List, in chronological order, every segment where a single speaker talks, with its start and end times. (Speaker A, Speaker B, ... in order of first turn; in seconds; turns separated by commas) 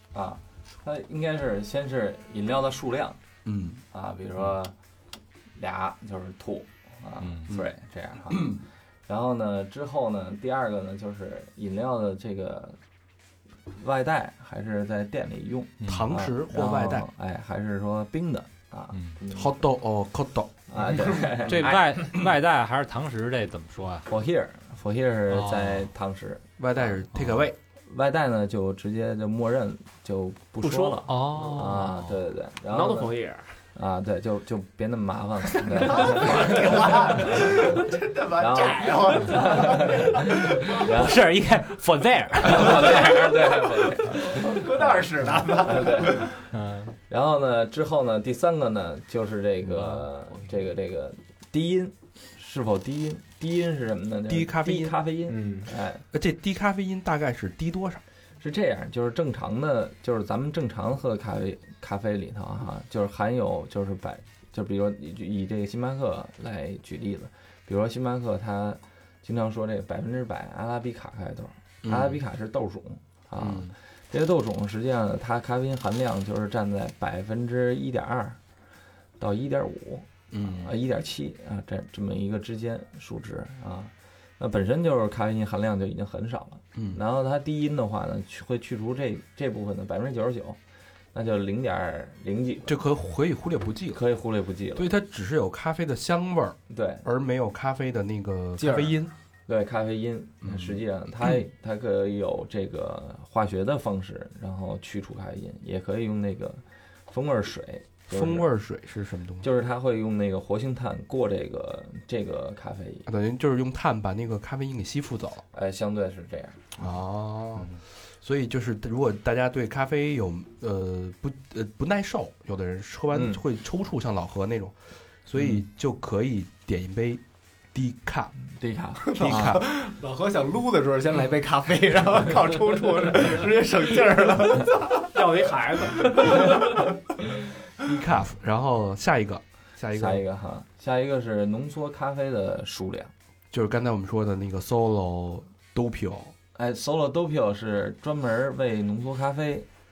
Speaker A: 0.1-3.2, Speaker B: 3.5-3.8, Speaker A: 3.9-4.7, Speaker A: 5.6-12.8, Speaker C: 7.2-7.5, Speaker B: 8.3-8.6, Speaker A: 13.7-19.6, Speaker C: 15.8-16.1, Speaker B: 15.8-17.1, Speaker B: 19.3-20.5, Speaker A: 20.7-21.9, Speaker C: 21.4-24.1, Speaker A: 24.1-27.0, Speaker C: 25.3-25.9, Speaker B: 26.6-27.6, Speaker A: 27.9-33.1, Speaker D: 30.6-31.8, Speaker C: 31.1-31.9, Speaker D: 32.7-33.5, Speaker A: 33.8-37.8, Speaker E: 35.9-40.1, Speaker A: 38.4-41.2, Speaker C: 40.9-43.3, Speaker A: 42.4-46.3, Speaker E: 44.2-46.4, Speaker C: 46.5-47.0, Speaker A: 47.1-56.0, Speaker C: 49.7-50.0, Speaker B: 54.3-55.0, Speaker E: 55.3-55.7, Speaker B: 56.1-58.0, Speaker A: 58.4-78.4, Speaker B: 71.8-72.2, Speaker B: 73.4-73.7, Speaker A: 79.2-90.6, Speaker B: 80.3-80.7, Speaker B: 86.8-87.0, Speaker A: 91.1-92.8, Speaker B: 92.7-94.0, Speaker A: 93.9-94.9, Speaker B: 94.8-99.1, Speaker A: 96.7-97.0, Speaker E: 98.6-99.0, Speaker A: 99.5-108.5, Speaker B: 100.4-100.8, Speaker B: 108.1-109.5, Speaker A: 109.4-113.1, Speaker B: 113.1-115.4, Speaker A: 115.5-116.7, Speaker B: 116.8-127.2, Speaker A: 123.1-123.4, Speaker B: 127.7-128.3, Speaker A: 128.5-129.6, Speaker E: 129.1-135.0, Speaker B: 129.1-129.7, Speaker D: 135.1-136.9, Speaker B: 137.8-140.2, Speaker A: 139.9-143.1, Speaker B: 143.5-146.3, Speaker A: 146.6-149.7